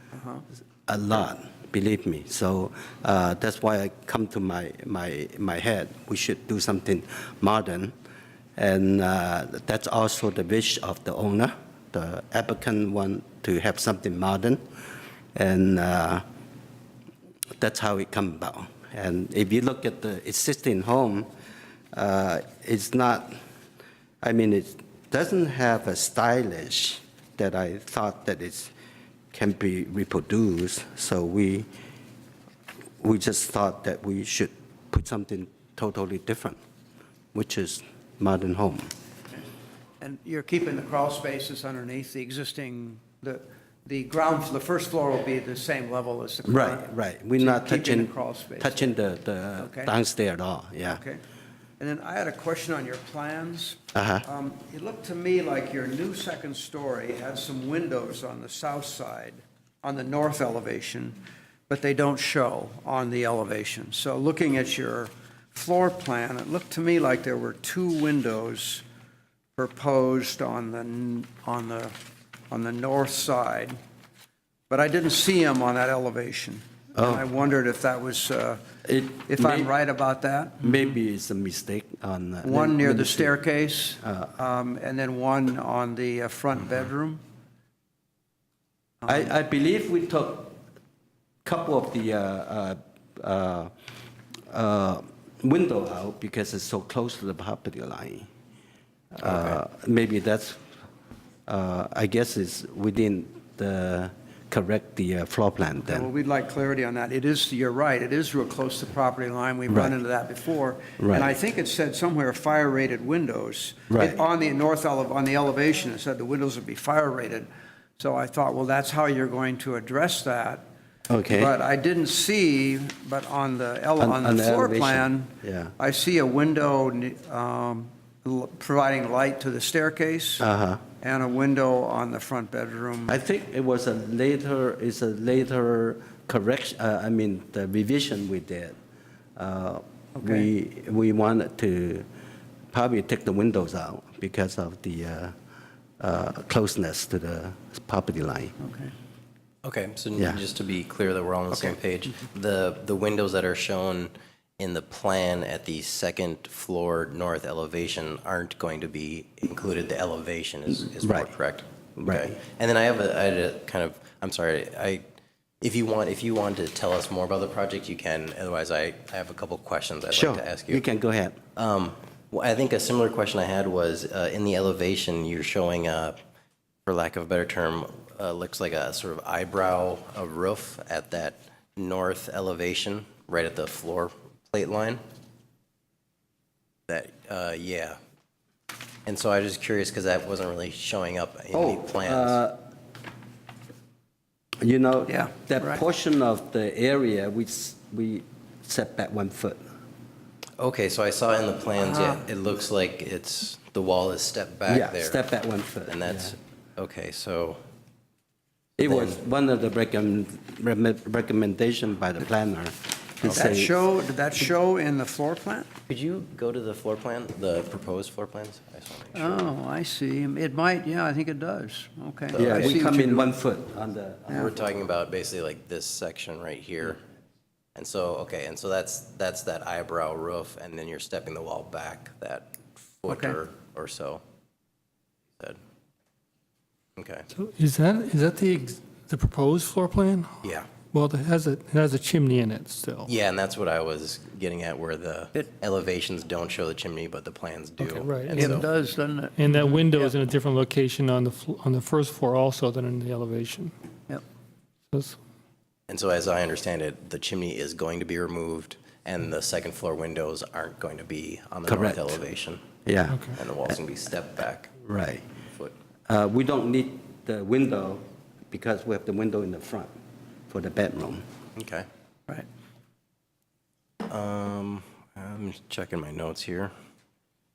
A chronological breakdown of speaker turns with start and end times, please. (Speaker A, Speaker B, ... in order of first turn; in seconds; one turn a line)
Speaker A: 0.1-0.4
Speaker B: 0.9-7.9
Speaker B: 8.6-14.6
Speaker B: 15.3-16.2
Speaker B: 17.6-21.3
Speaker B: 21.9-23.4
Speaker B: 24.2-28.7
Speaker B: 29.3-31.7
Speaker B: 33.0-36.6
Speaker B: 37.3-38.9
Speaker A: 40.0-49.0
Speaker B: 46.4-51.0
Speaker A: 49.6-49.9
Speaker A: 50.9-51.2
Speaker A: 51.8-68.8
Speaker B: 54.0-54.2
Speaker A: 69.6-71.9
Speaker A: 72.5-73.8
Speaker A: 74.7-78.6
Speaker B: 77.0-77.2
Speaker B: 78.8-79.7
Speaker A: 79.3-80.7
Speaker B: 80.6-83.4
Speaker A: 82.4-87.2
Speaker B: 84.0-84.3
Speaker B: 89.1-90.6
Speaker B: 91.5-93.7
Speaker B: 94.5-98.3
Speaker B: 99.1-100.7
Speaker C: 99.2-99.6
Speaker B: 101.5-106.1
Speaker A: 105.8-120.6
Speaker B: 111.0-111.3
Speaker B: 113.9-114.2
Speaker B: 121.1-121.5
Speaker A: 121.3-130.4
Speaker B: 124.0-125.7
Speaker B: 130.4-130.8
Speaker A: 131.0-133.2
Speaker B: 133.1-138.8
Speaker B: 139.4-142.1
Speaker A: 140.2-140.5
Speaker B: 142.7-145.3
Speaker B: 146.0-148.5
Speaker A: 148.6-148.9
Speaker C: 149.6-165.0
Speaker B: 161.0-161.3
Speaker B: 162.0-162.4
Speaker C: 165.6-170.8
Speaker B: 170.1-171.4
Speaker C: 171.6-176.2
Speaker C: 176.9-185.0
Speaker C: 186.9-188.0
Speaker C: 189.1-192.4
Speaker B: 191.5-192.6
Speaker B: 194.6-199.6
Speaker A: 195.1-195.8
Speaker C: 200.6-205.2
Speaker A: 201.8-202.2
Speaker B: 204.7-206.3
Speaker C: 205.9-207.6
Speaker B: 208.8-213.7
Speaker C: 208.8-209.2
Speaker C: 213.2-213.6
Speaker A: 213.3-215.7
Speaker C: 215.9-219.5
Speaker A: 219.1-223.3
Speaker C: 222.3-222.8
Speaker B: 222.3-224.5
Speaker C: 224.3-227.0
Speaker C: 227.8-234.2
Speaker A: 233.1-233.4
Speaker C: 237.0-237.3
Speaker D: 237.3-243.1
Speaker C: 240.4-240.7
Speaker C: 243.1-248.7
Speaker A: 247.8-250.2
Speaker D: 248.0-248.7
Speaker D: 249.4-253.7
Speaker D: 254.9-255.2
Speaker C: 255.9-262.6
Speaker B: 261.7-262.1
Speaker B: 262.9-263.8
Speaker C: 263.4-264.8
Speaker B: 264.9-265.2
Speaker B: 266.1-269.9
Speaker B: 270.5-271.2
Speaker C: 271.6-271.9
Speaker C: 274.1-276.7